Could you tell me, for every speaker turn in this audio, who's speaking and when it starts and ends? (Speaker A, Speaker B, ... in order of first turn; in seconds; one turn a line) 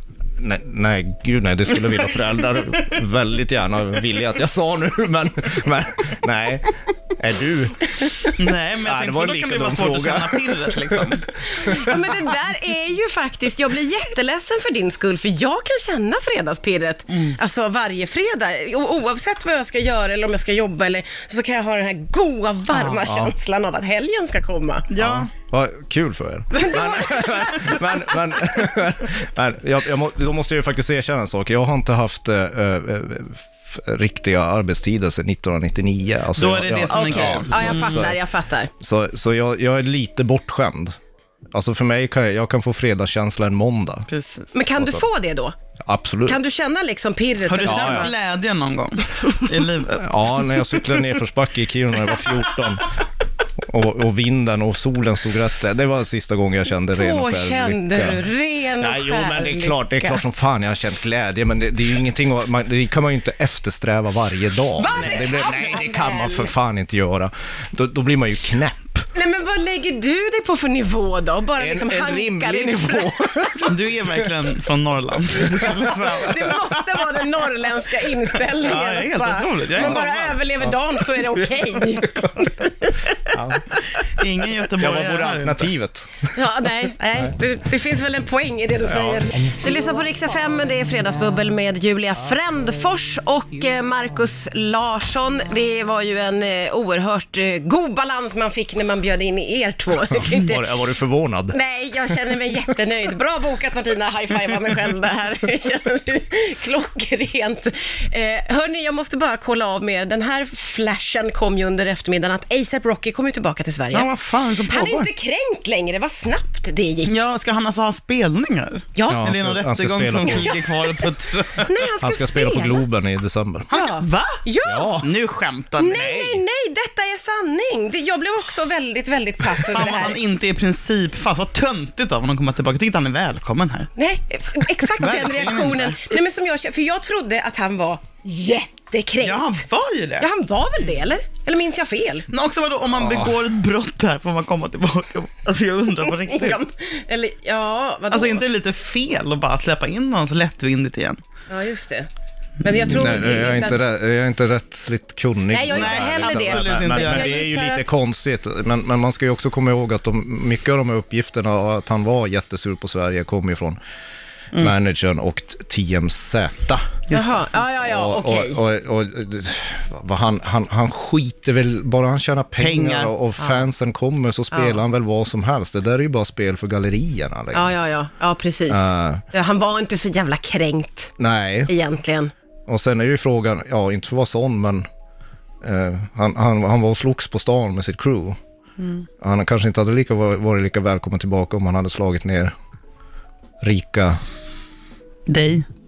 Speaker A: 0.4-11.9
Speaker B: 8.3-11.3
Speaker C: 11.5-24.9
Speaker B: 17.1-17.4
Speaker A: 23.0-23.3
Speaker B: 24.9-25.3
Speaker A: 25.0-38.2
Speaker C: 26.6-27.8
Speaker B: 36.4-38.1
Speaker C: 36.9-38.7
Speaker A: 38.8-41.0
Speaker A: 41.5-44.1
Speaker B: 44.1-44.5
Speaker C: 44.5-45.5
Speaker A: 44.8-45.0
Speaker A: 45.8-46.4
Speaker C: 46.2-48.1
Speaker B: 47.5-50.4
Speaker A: 47.6-48.1
Speaker A: 49.9-52.9
Speaker A: 53.6-58.2
Speaker C: 56.9-60.2
Speaker A: 58.8-69.0
Speaker C: 64.8-66.5
Speaker C: 69.1-73.5
Speaker A: 71.6-74.5
Speaker B: 73.7-76.7
Speaker A: 75.4-76.3
Speaker C: 75.6-83.5
Speaker B: 78.5-80.4
Speaker A: 80.6-82.5
Speaker A: 83.3-83.8
Speaker B: 84.0-85.7
Speaker A: 84.8-86.3
Speaker C: 86.3-100.6
Speaker A: 88.8-89.5
Speaker A: 100.1-101.6
Speaker C: 101.5-114.1
Speaker B: 113.9-115.1
Speaker C: 114.7-117.2
Speaker B: 117.0-121.8
Speaker C: 119.0-119.3
Speaker A: 119.1-120.6
Speaker C: 121.6-122.8
Speaker A: 122.0-123.7
Speaker B: 123.7-124.4
Speaker C: 123.7-125.0
Speaker A: 124.7-125.1
Speaker B: 125.0-126.0
Speaker C: 125.8-130.2
Speaker A: 125.9-126.4
Speaker B: 129.6-133.9
Speaker C: 133.9-139.6
Speaker B: 134.9-136.1
Speaker B: 139.2-140.3
Speaker C: 140.2-142.3
Speaker B: 142.3-146.6
Speaker A: 143.0-143.4
Speaker C: 146.1-148.4
Speaker B: 148.1-151.2
Speaker C: 151.5-152.1
Speaker C: 152.6-153.8
Speaker A: 152.8-163.8
Speaker C: 155.5-157.9
Speaker B: 155.7-157.4
Speaker A: 164.5-166.8
Speaker B: 167.1-167.5
Speaker C: 167.1-168.6
Speaker A: 167.7-177.7
Speaker B: 172.6-173.1
Speaker C: 174.5-174.8
Speaker C: 177.5-181.1
Speaker A: 178.7-179.2
Speaker A: 181.2-181.7
Speaker C: 181.7-182.3
Speaker A: 182.7-184.9
Speaker A: 185.6-188.4
Speaker B: 188.8-189.1
Speaker A: 189.2-192.5
Speaker A: 193.6-194.2
Speaker B: 195.3-195.7